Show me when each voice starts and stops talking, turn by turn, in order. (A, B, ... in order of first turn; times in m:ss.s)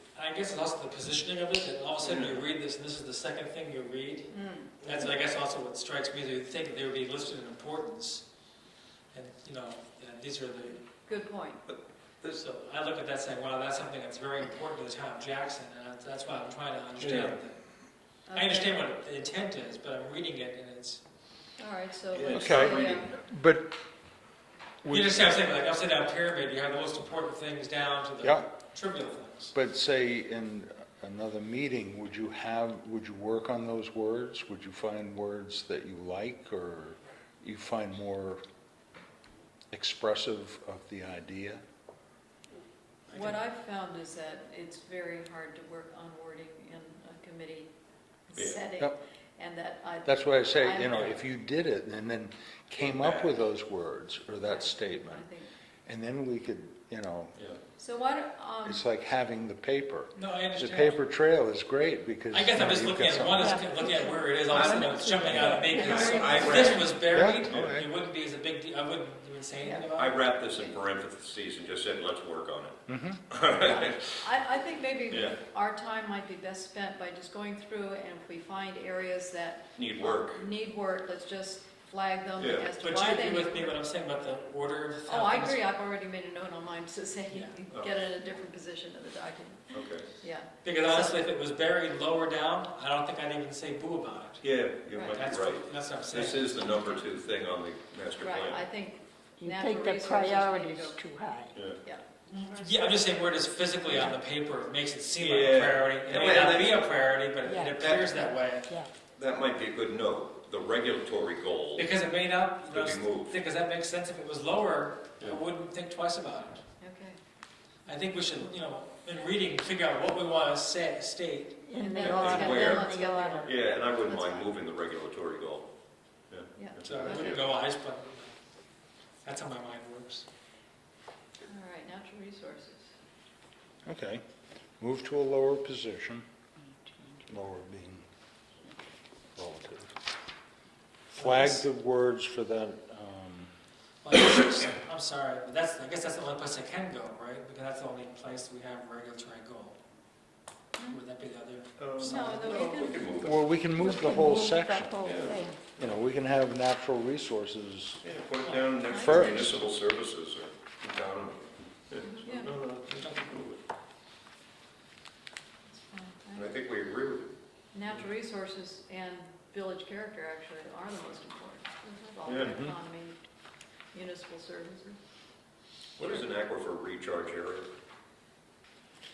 0:00.1-0:08.3 A
0:02.0-0:02.4 B
0:04.3-0:04.7 C
0:09.1-0:10.8 A
0:11.0-0:11.6 C
0:11.7-0:12.4 B
0:12.4-0:17.6 A
0:17.0-0:17.4 B
0:18.3-0:18.8 C
0:18.3-0:21.0 A
0:21.6-0:23.1 C
0:22.1-0:23.1 B
0:22.3-0:23.8 D
0:24.8-0:25.4 D
0:24.9-0:29.5 A
0:28.2-0:28.5 D
0:29.5-0:38.4 D
0:39.7-0:41.6 D
0:43.1-0:43.4 A
0:43.1-0:47.7 C
0:48.3-0:51.1 C
0:50.0-0:55.3 D
0:52.8-0:53.4 B
0:54.4-0:55.5 C
0:55.9-0:57.4 D
0:57.8-0:58.8 C
0:58.6-1:03.8 D
1:00.2-1:01.0 A
1:02.3-1:10.2 A
1:03.4-1:06.8 E
1:04.5-1:07.8 B
1:05.8-1:06.7 C
1:07.1-1:07.9 D
1:09.6-1:09.9 C
1:10.0-1:14.3 B
1:12.9-1:13.2 D
1:13.6-1:23.8 C
1:15.1-1:15.4 B
1:19.8-1:20.4 B
1:22.4-1:22.7 B
1:22.8-1:25.6 A
1:25.1-1:31.2 C
1:27.3-1:27.6 A
1:29.7-1:30.1 B
1:30.6-1:34.4 A
1:34.4-1:38.7 B
1:35.0-1:35.2 C
1:35.1-1:36.6 A
1:36.6-1:37.0 C
1:38.2-1:41.0 C
1:39.4-1:41.7 E
1:41.5-1:41.8 B
1:41.7-1:42.6 C
1:42.3-1:48.7 A
1:45.2-1:46.8 B
1:47.4-1:48.9 E
1:47.8-1:48.2 B
1:49.2-1:51.9 B
1:51.8-1:56.6 A
1:52.7-1:53.4 B
1:56.8-1:57.2 C
1:57.9-2:01.7 A
2:01.6-2:03.5 E
2:01.8-2:04.6 C
2:02.0-2:05.7 B
2:06.3-2:07.5 B
2:06.6-2:07.4 C
2:06.8-2:08.3 A
2:09.2-2:10.3 A
2:11.5-2:12.9 C
2:13.8-2:14.2 D
2:14.8-2:16.3 D
2:17.3-2:18.1 D
2:19.4-2:20.0 D
2:21.1-2:23.5 D
2:21.2-2:21.6 A
2:24.0-2:29.8 A
2:30.9-2:32.7 A
2:31.8-2:33.5 B
2:32.0-2:33.2 C
2:33.2-2:35.0 D
2:33.7-2:35.6 E
2:35.0-2:36.0 B
2:35.8-2:38.0 D
2:38.0-2:43.6 B
2:38.9-2:39.6 D
2:38.9-2:39.3 C
2:42.0-2:42.6 C
2:43.0-2:43.3 A
2:45.7-2:46.6 C
2:46.4-2:47.4 B
2:47.7-2:53.2 C
2:51.8-2:52.1 E
2:52.3-2:52.6 B
2:52.4-2:52.8 D
2:53.9-2:55.0 C
2:56.0-2:57.7 B